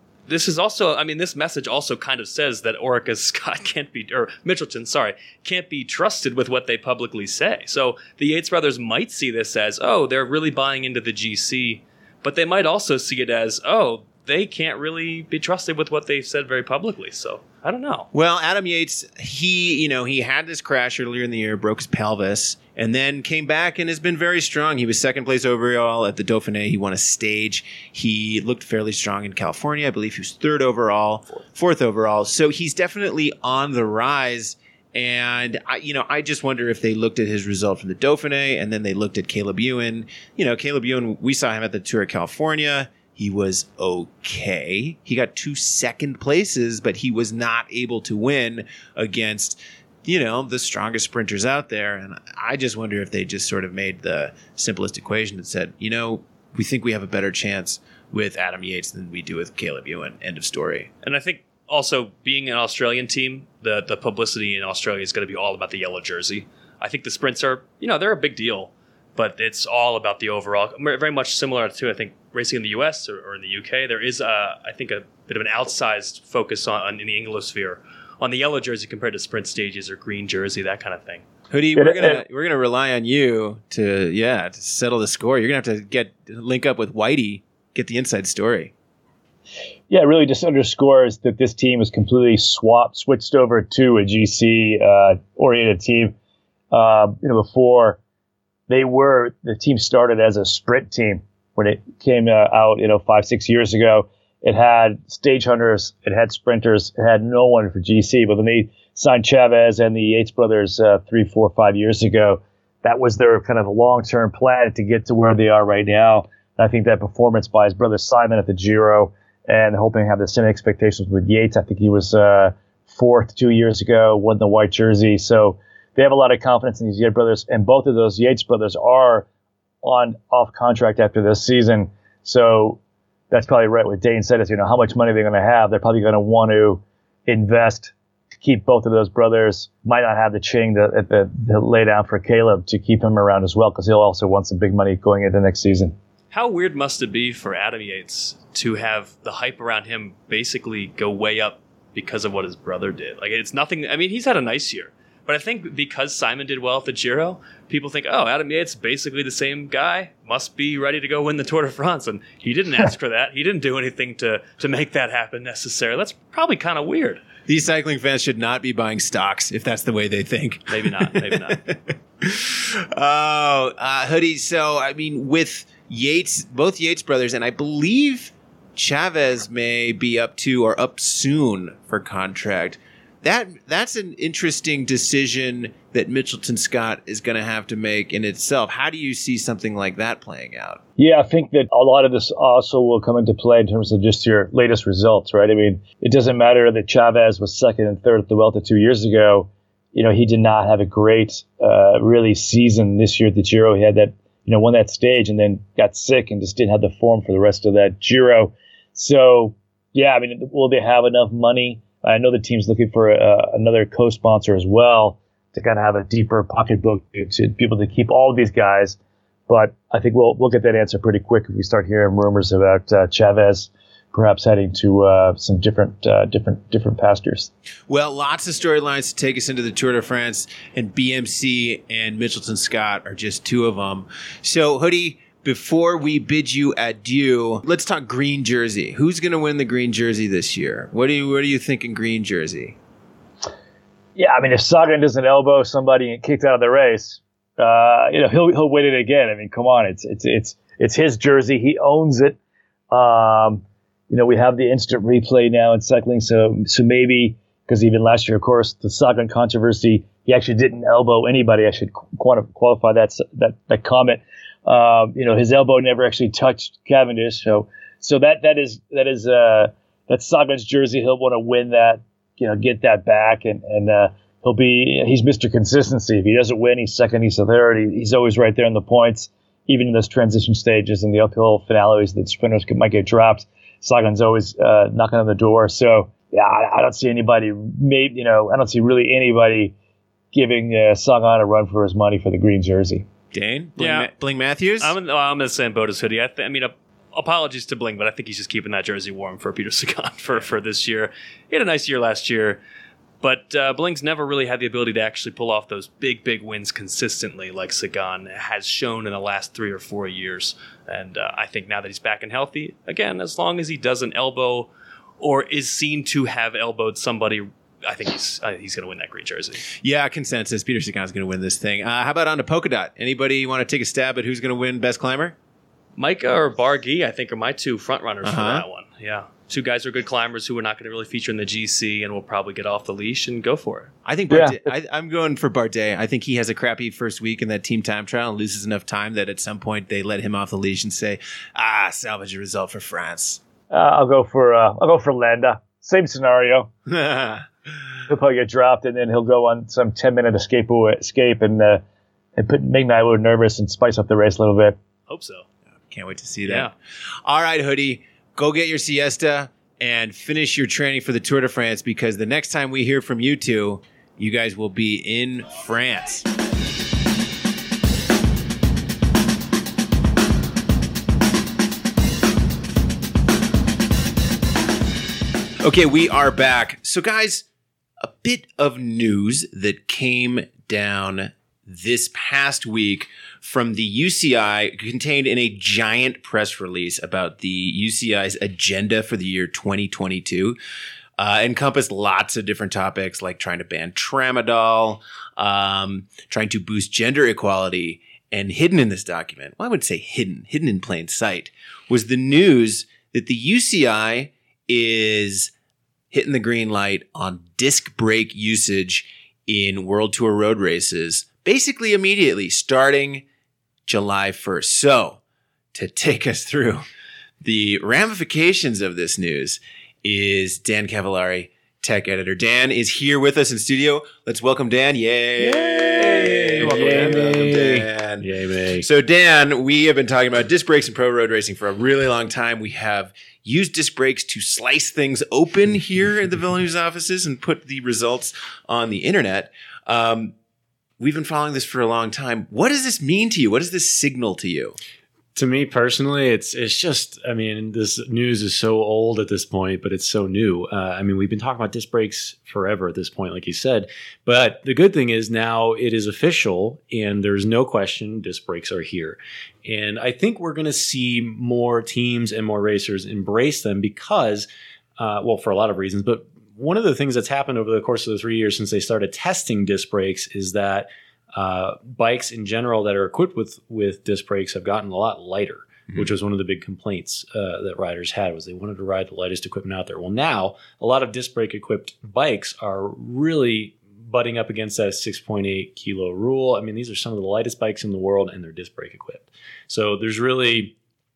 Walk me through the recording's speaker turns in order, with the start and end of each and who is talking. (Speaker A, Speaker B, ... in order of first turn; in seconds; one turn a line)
Speaker A: 0.3-18.1
Speaker B: 18.1-60.9
Speaker A: 61.0-81.2
Speaker B: 81.5-88.7
Speaker C: 81.8-82.2
Speaker C: 89.9-96.1
Speaker C: 96.7-98.0
Speaker C: 98.7-129.3
Speaker C: 129.8-132.8
Speaker C: 133.3-145.9
Speaker A: 146.3-167.2
Speaker B: 167.5-190.8
Speaker A: 170.7-171.6
Speaker C: 191.0-227.5
Speaker B: 227.9-242.8
Speaker C: 244.2-252.4
Speaker C: 252.9-289.7
Speaker C: 290.3-293.1
Speaker B: 293.3-294.9
Speaker A: 293.8-294.1
Speaker A: 294.8-302.6
Speaker A: 303.2-314.7
Speaker A: 315.2-319.7
Speaker B: 319.7-325.4
Speaker A: 326.0-333.9
Speaker B: 328.2-328.6
Speaker B: 334.1-343.4
Speaker C: 334.3-334.6
Speaker C: 343.7-346.7
Speaker B: 346.9-347.5
Speaker C: 348.1-351.8
Speaker C: 352.4-354.8
Speaker A: 355.1-355.5
Speaker B: 355.9-356.7
Speaker A: 356.5-356.7
Speaker B: 357.2-366.3
Speaker B: 375.6-377.5
Speaker B: 378.0-390.6
Speaker B: 391.2-405.5
Speaker B: 406.1-413.2
Speaker B: 413.9-415.2
Speaker B: 415.7-416.8
Speaker B: 417.4-440.4
Speaker D: 425.4-428.9
Speaker A: 426.1-427.4
Speaker B: 441.0-444.8
Speaker D: 445.4-490.8